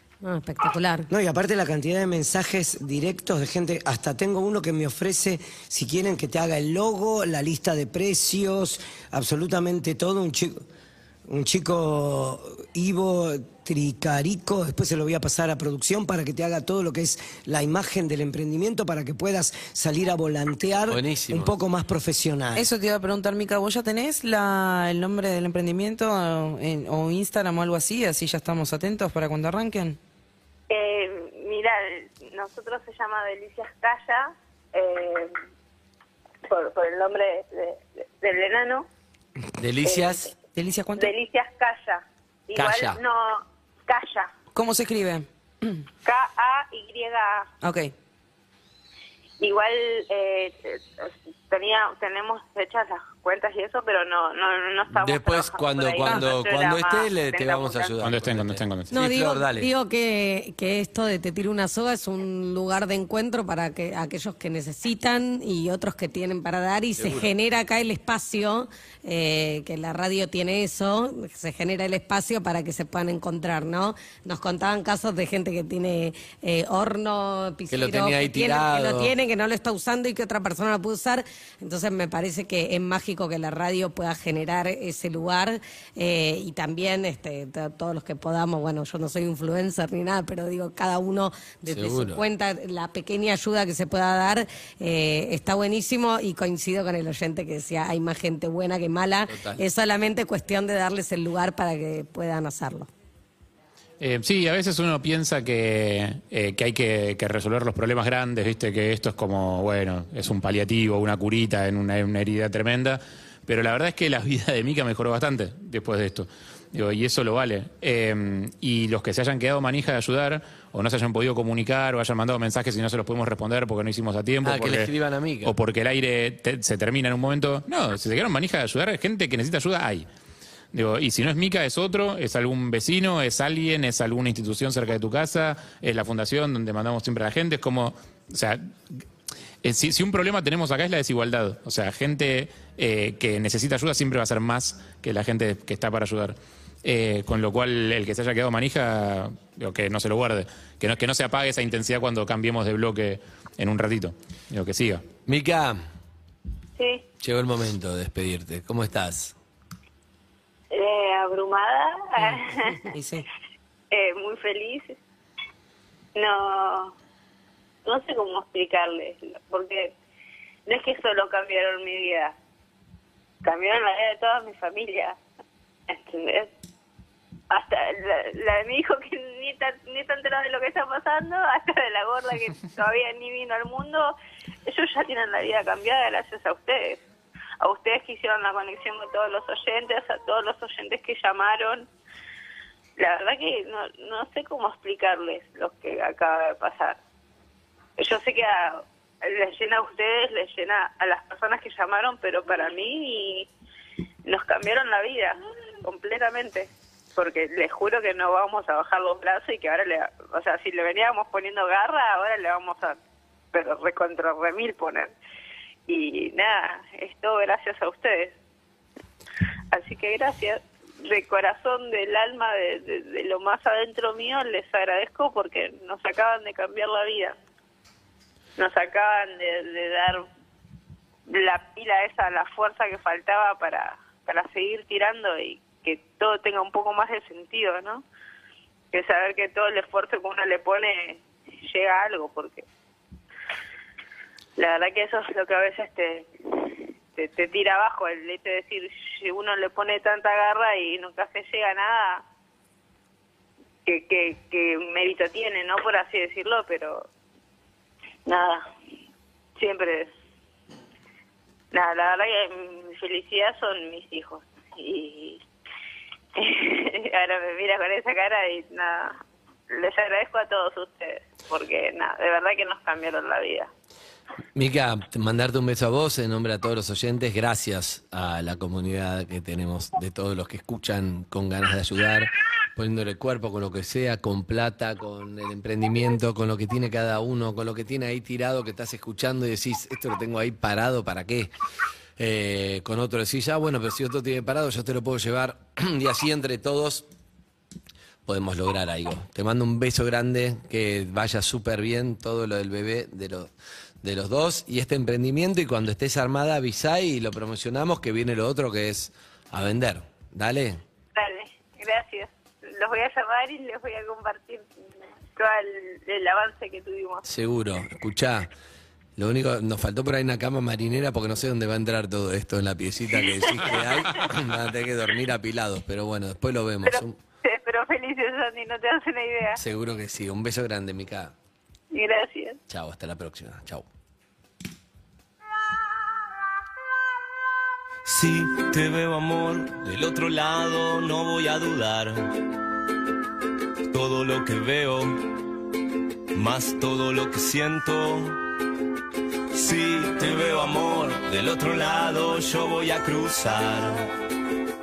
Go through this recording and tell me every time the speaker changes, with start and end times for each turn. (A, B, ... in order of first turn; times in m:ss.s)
0:00.2-0:01.1 A
0:01.1-0:10.6 B
0:11.3-0:22.7 B
0:20.9-0:21.5 C
0:22.5-0:30.0 D
0:30.7-0:35.3 E
0:36.5-0:38.9 E
0:39.6-0:40.3 C
0:39.8-0:40.3 E
0:40.5-0:41.1 D
0:41.0-0:44.3 E
0:42.5-0:43.0 C
0:44.5-0:45.8 D
0:46.0-0:47.5 E
0:47.6-0:47.9 D
0:49.4-0:57.9 E
0:54.9-0:59.7 C
0:56.0-0:56.3 D
0:58.0-0:58.9 F
0:58.9-1:42.9 A
1:07.0-1:07.3 C
1:17.7-1:19.1 C
1:31.7-1:32.2 C
1:39.3-1:39.6 C
1:44.0-2:04.9 F
2:04.4-2:05.5 C
2:05.4-2:10.1 F
2:10.7-2:19.0 F
2:19.6-2:35.0 F
2:35.2-2:35.8 C
2:36.8-2:37.0 E
2:37.2-2:39.3 C
2:40.7-2:42.9 E
2:42.9-2:43.2 D
2:43.9-2:45.0 E
2:46.1-2:46.9 E
2:47.8-2:49.9 E
2:50.7-2:52.3 E
2:53.4-2:55.2 E
2:55.9-2:56.5 E
2:57.5-3:07.0 E
3:07.6-3:11.9 E
3:13.0-3:17.0 E
3:18.0-3:23.5 E
3:24.2-3:33.0 E
3:33.5-3:35.1 E
3:35.9-3:38.4 E
3:39.7-3:47.4 E
3:48.6-3:50.2 E
3:51.3-3:58.0 E
3:58.9-4:02.6 E
4:04.6-4:12.2 E
4:13.8-4:17.1 E
4:18.2-4:18.7 E
4:19.6-4:20.1 E
4:21.7-4:25.4 E
4:26.4-4:33.7 E
4:34.5-4:51.5 C
4:52.2-4:57.0 C
4:58.2-5:03.5 C
5:04.0-5:10.8 C
5:11.1-5:14.7 E
5:15.3-5:17.2 E
5:17.2-5:18.5 C
5:19.2-5:27.2 C
5:23.2-5:24.2 E
5:26.8-5:29.6 E
5:29.6-5:31.3 C
5:31.9-5:32.6 E
5:32.7-5:33.8 C
5:38.0-5:42.3 G
5:43.9-5:45.3 G
5:46.3-5:48.4 G
5:49.5-5:54.1 G